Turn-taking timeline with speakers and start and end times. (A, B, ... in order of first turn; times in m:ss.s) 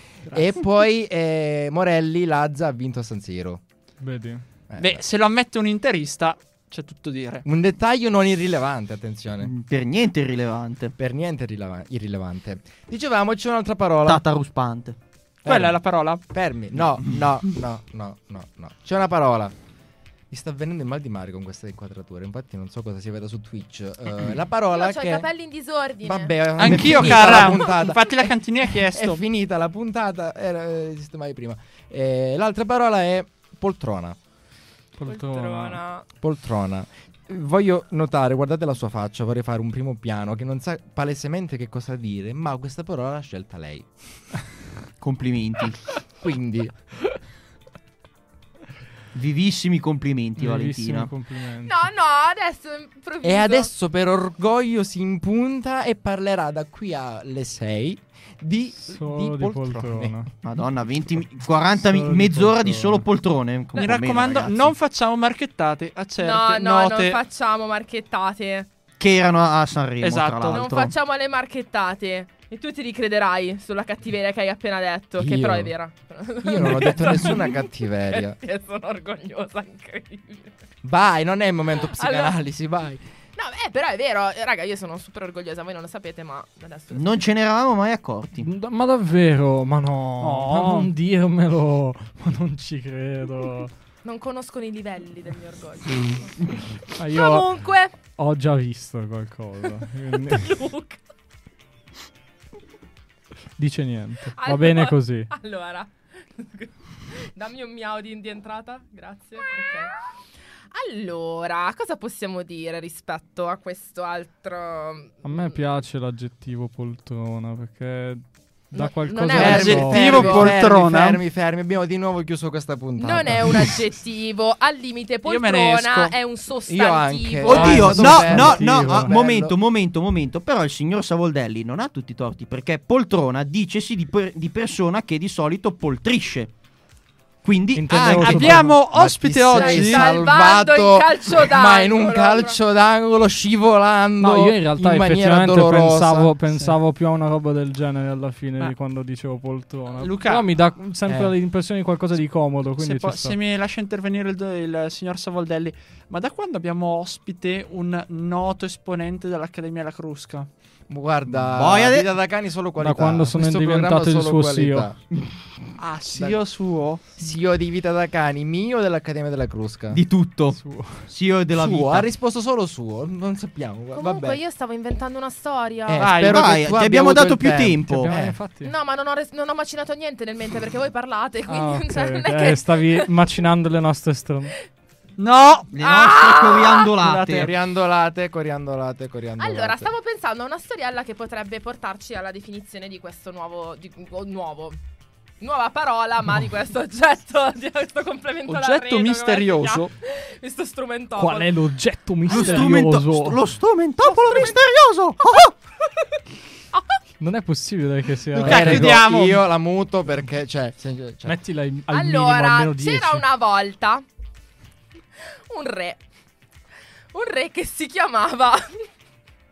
0:00.3-0:03.6 A
0:04.0-0:04.4 B
0:04.7-0:05.0 A
0:04.8-0:07.4 C
0:07.4-0:09.5 A
0:09.4-0:10.9 D
0:11.0-0:14.2 A
0:14.1-0:15.0 D
0:15.4-0:19.5 A
0:15.5-0:16.2 C
0:20.3-0:25.3 A
0:24.7-0:27.0 E
0:26.0-0:34.2 A
0:26.6-0:29.2 C
0:35.0-0:35.8 B
0:35.1-0:36.1 E
0:36.2-0:43.9 A
0:45.0-0:46.0 D
0:46.2-0:46.8 A
0:49.1-0:51.1 D
0:50.4-0:51.8 B
0:51.6-0:53.7 E
0:53.2-1:00.2 A
0:58.8-1:00.3 B
1:00.4-1:04.7 D
1:01.8-1:03.0 B
1:03.8-1:07.2 C
1:06.2-1:08.7 E
1:09.0-1:10.9 D
1:10.0-1:10.7 C
1:10.5-1:20.5 E
1:15.2-1:15.7 A
1:16.4-1:18.4 A
1:20.8-1:23.0 A
1:21.8-1:22.4 E
1:23.4-1:27.2 E
1:26.9-1:28.5 D
1:28.4-1:33.7 B
1:30.2-1:30.9 C
1:34.0-1:37.9 E
1:36.9-1:40.6 B
1:40.2-1:41.0 E
1:43.6-1:45.3 B
1:44.3-1:49.9 E
1:50.7-1:55.6 E
1:55.2-2:00.2 B
1:58.7-2:00.6 E
1:59.3-2:03.8 A
1:59.4-2:01.2 C
2:03.0-2:08.1 E
2:05.3-2:06.1 C
2:06.7-2:09.6 A
2:07.5-2:16.5 D
2:07.5-2:09.1 B
2:17.4-2:18.7 D
2:17.7-2:18.8 B
2:18.2-2:20.1 C
2:18.7-2:26.3 A
2:19.5-2:22.6 E
2:24.2-2:33.4 B
2:30.0-2:30.5 C
2:31.1-2:31.3 A
2:32.8-2:40.5 C
2:40.9-2:45.0 A
2:41.5-2:42.1 D
2:42.8-2:44.9 B
2:45.8-2:47.0 C
2:47.2-2:50.0 A
2:49.9-2:52.1 D
2:50.5-2:51.1 B
2:51.5-2:54.4 A
2:53.9-2:56.1 E
2:55.9-2:58.4 A
2:56.0-2:56.5 C
2:56.2-2:58.1 D
2:58.0-2:58.7 B
2:58.6-3:03.1 E
3:01.5-3:04.6 B
3:05.2-3:05.8 C
3:05.7-3:07.5 D
3:05.8-3:06.9 E
3:07.0-3:07.5 C
3:07.3-3:09.9 A
3:09.4-3:14.8 E
3:15.4-3:21.5 E
3:18.5-3:19.9 C
3:21.2-3:23.4 B
3:22.3-3:25.5 D
3:22.3-3:22.7 E
3:27.2-3:29.0 B
3:28.4-3:29.4 C
3:28.4-3:31.4 A
3:31.2-3:33.3 B
3:31.9-3:34.0 E
3:35.3-3:36.0 E
3:37.1-3:38.9 E